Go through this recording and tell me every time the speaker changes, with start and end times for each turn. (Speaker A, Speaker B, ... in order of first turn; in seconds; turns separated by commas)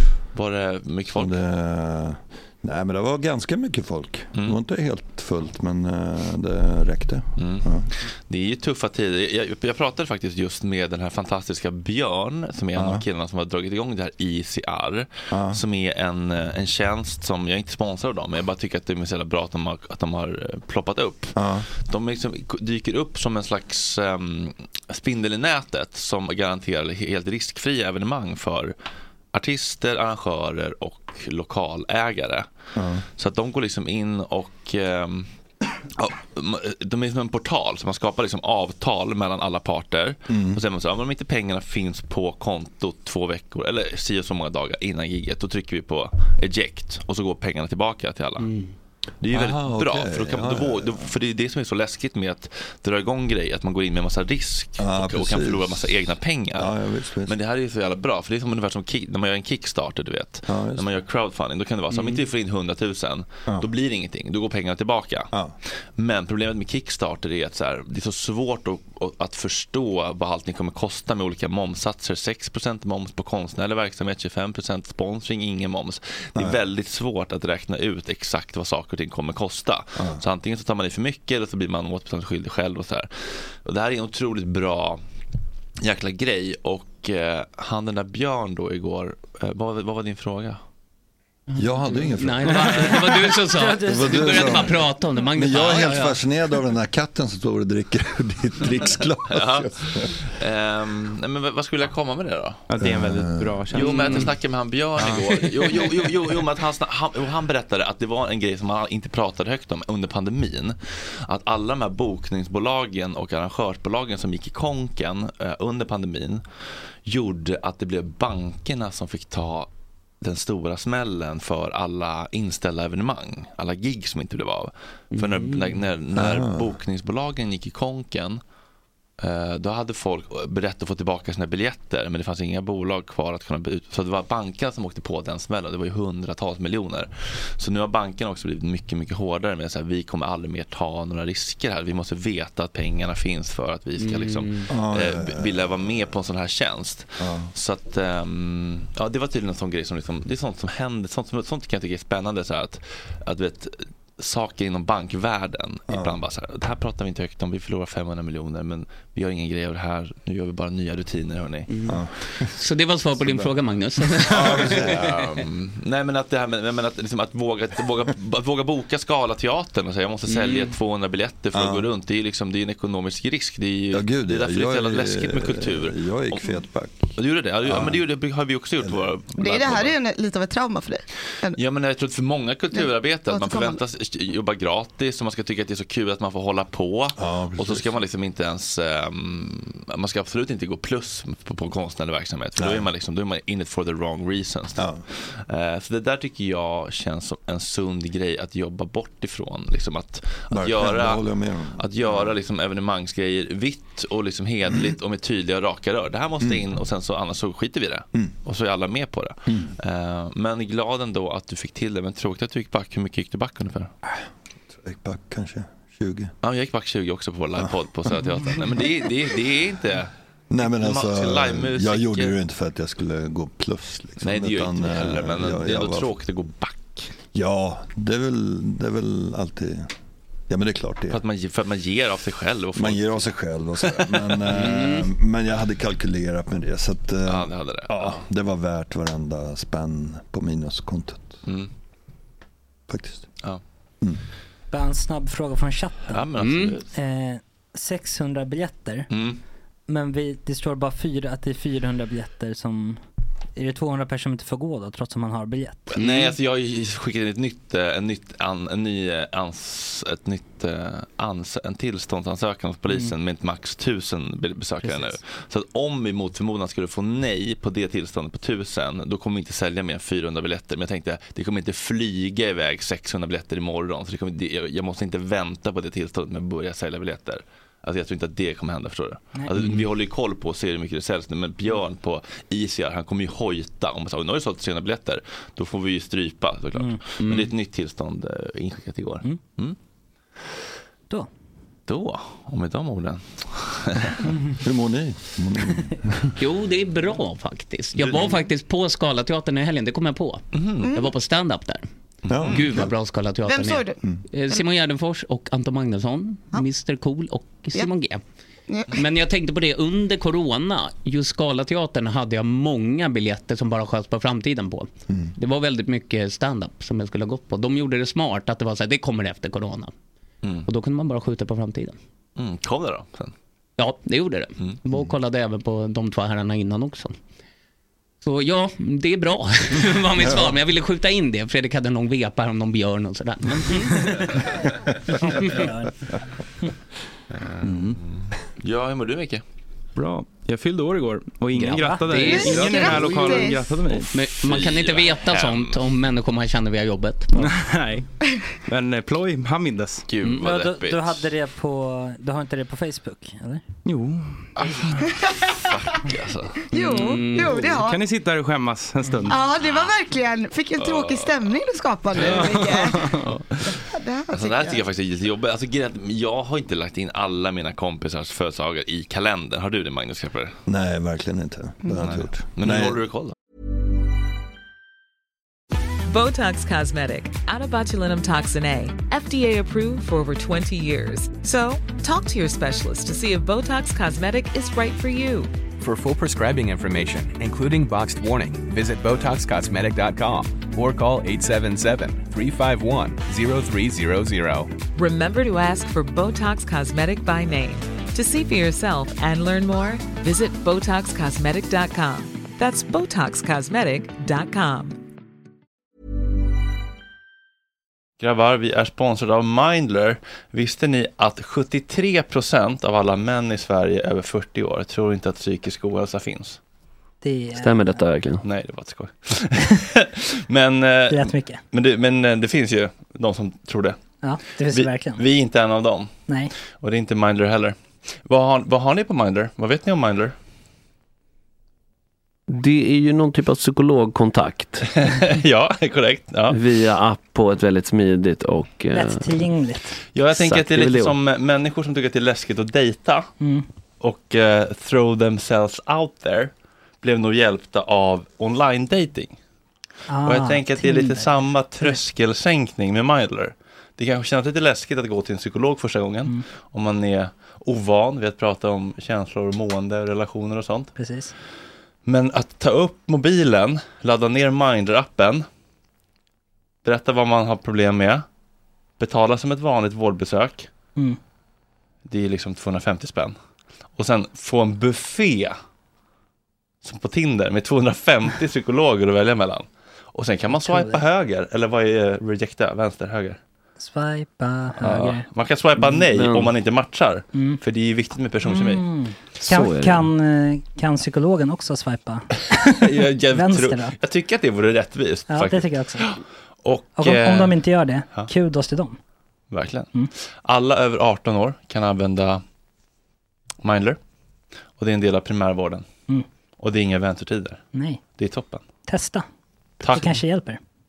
Speaker A: 0.3-1.4, Speaker B: 1.1-7.9, Speaker A: 7.4-28.7, Speaker B: 12.7-13.0, Speaker B: 15.3-15.6, Speaker B: 21.4-21.7, Speaker A: 29.3-32.5, Speaker B: 32.8-33.0, Speaker A: 33.1-35.3, Speaker A: 36.0-48.5, Speaker B: 40.3-40.6, Speaker A: 49.2-85.0, Speaker B: 49.3-51.1, Speaker B: 54.8-56.0, Speaker B: 56.5-57.3, Speaker B: 60.5-60.9, Speaker B: 80.0-80.2, Speaker A: 85.8-90.6, Speaker B: 91.5-100.2, Speaker C: 91.9-96.2, Speaker D: 93.5-94.5, Speaker A: 99.3-102.6, Speaker E: 102.7-104.4, Speaker B: 102.8-103.7, Speaker A: 103.7-116.4, Speaker E: 105.0-106.1, Speaker A: 117.0-119.7, Speaker A: 120.2-128.4, Speaker C: 125.1-125.7, Speaker B: 126.1-126.7, Speaker A: 129.2-161.7, Speaker C: 144.0-144.7, Speaker B: 144.7-146.0, Speaker B: 147.2-147.5, Speaker B: 155.9-156.2, Speaker B: 161.8-162.5, Speaker C: 162.5-165.1, Speaker B: 163.2-163.5, Speaker A: 164.3-176.6, Speaker B: 164.6-164.9, Speaker C: 170.3-170.7, Speaker B: 171.5-171.9, Speaker B: 173.9-178.0, Speaker A: 177.1-179.9, Speaker B: 178.8-179.1, Speaker F: 179.4-181.6, Speaker A: 181.5-213.9, Speaker F: 182.7-183.8, Speaker B: 187.2-188.0, Speaker B: 192.6-192.9, Speaker B: 194.8-195.0, Speaker B: 200.5-202.3, Speaker B: 206.4-206.7, Speaker B: 209.5-209.7, Speaker B: 214.0-216.3, Speaker A: 216.4-222.3, Speaker B: 217.6-218.9, Speaker B: 220.5-226.1, Speaker A: 224.2-227.1, Speaker B: 227.3-229.9, Speaker B: 230.5-231.2, Speaker A: 231.1-233.3, Speaker B: 232.7-241.4, Speaker A: 233.8-234.8, Speaker C: 234.5-235.1, Speaker A: 237.2-238.2, Speaker B: 242.9-243.3, Speaker D: 244.7-246.2, Speaker A: 246.1-246.8, Speaker C: 246.4-246.8, Speaker D: 246.9-249.1, Speaker A: 249.1-249.4, Speaker D: 249.9-253.0, Speaker D: 253.6-256.0, Speaker A: 255.9-289.8, Speaker C: 256.0-256.3, Speaker D: 264.8-265.2, Speaker C: 287.2-287.5, Speaker A: 291.9-294.2, Speaker B: 294.6-296.3, Speaker C: 296.4-301.8, Speaker A: 300.5-300.9, Speaker F: 300.8-301.1, Speaker A: 302.3-302.6, Speaker B: 302.3-302.9, Speaker C: 302.4-308.2, Speaker F: 303.4-304.0, Speaker F: 308.7-309.0, Speaker C: 308.9-319.9, Speaker C: 320.6-322.0, Speaker A: 322.4-323.3, Speaker C: 323.8-327.1, Speaker C: 328.2-334.3, Speaker C: 335.2-335.5, Speaker D: 335.6-335.8, Speaker A: 337.3-339.4, Speaker E: 337.6-338.0, Speaker E: 339.9-344.1, Speaker C: 341.6-342.5, Speaker D: 341.7-342.9, Speaker F: 342.2-343.8, Speaker C: 344.1-347.4, Speaker A: 344.4-345.8, Speaker E: 347.4-348.1, Speaker E: 348.7-350.1, Speaker A: 350.1-351.3, Speaker D: 350.4-353.6, Speaker E: 353.8-354.9, Speaker A: 354.6-356.6, Speaker F: 355.2-355.5, Speaker F: 356.7-358.0, Speaker C: 356.8-357.6, Speaker E: 356.8-359.4, Speaker F: 359.3-364.8, Speaker A: 360.8-361.5, Speaker A: 362.1-362.6, Speaker E: 362.2-363.7, Speaker A: 364.3-370.6, Speaker B: 370.7-373.0, Speaker A: 372.0-373.3, Speaker G: 376.1-385.5, Speaker H: 385.8-394.7, Speaker G: 394.9-405.0, Speaker A: 408.2-416.6, Speaker D: 417.2-418.0, Speaker I: 417.5-418.4, Speaker A: 418.4-424.0, Speaker D: 421.1-421.6, Speaker D: 424.2-425.2, Speaker A: 424.7-426.1, Speaker A: 426.8-430.3, Speaker I: 432.5-434.9, Speaker A: 434.9-436.6, Speaker I: 436.5-439.4, Speaker D: 438.9-440.0, Speaker A: 440.1-443.3, Speaker I: 440.3-441.1, Speaker D: 443.4-443.6, Speaker A: 444.0-449.4, Speaker D: 450.1-451.3, Speaker A: 450.2-460.9, Speaker D: 460.9-461.3, Speaker A: 462.1-465.4, Speaker A: 466.8-468.2, Speaker A: 469.0-470.7, Speaker A: 472.1-473.4, Speaker A: 474.0-475.6, Speaker A: 476.8-483.4, Speaker D: 480.5-481.0, Speaker D: 483.8-485.2, Speaker A: 484.8-488.9, Speaker I: 485.8-486.5, Speaker D: 487.3-487.6, Speaker D: 488.4-493.9, Speaker I: 489.4-490.1, Speaker A: 492.7-497.6, Speaker D: 495.3-496.1, Speaker D: 497.0-499.0, Speaker A: 499.5-499.9, Speaker A: 500.4-502.4, Speaker A: 503.6-504.0, Speaker A: 504.8-505.9, Speaker A: 506.6-507.6, Speaker D: 507.7-508.0, Speaker A: 508.2-508.6, Speaker D: 508.9-509.2, Speaker A: 509.8-510.2, Speaker D: 509.8-510.6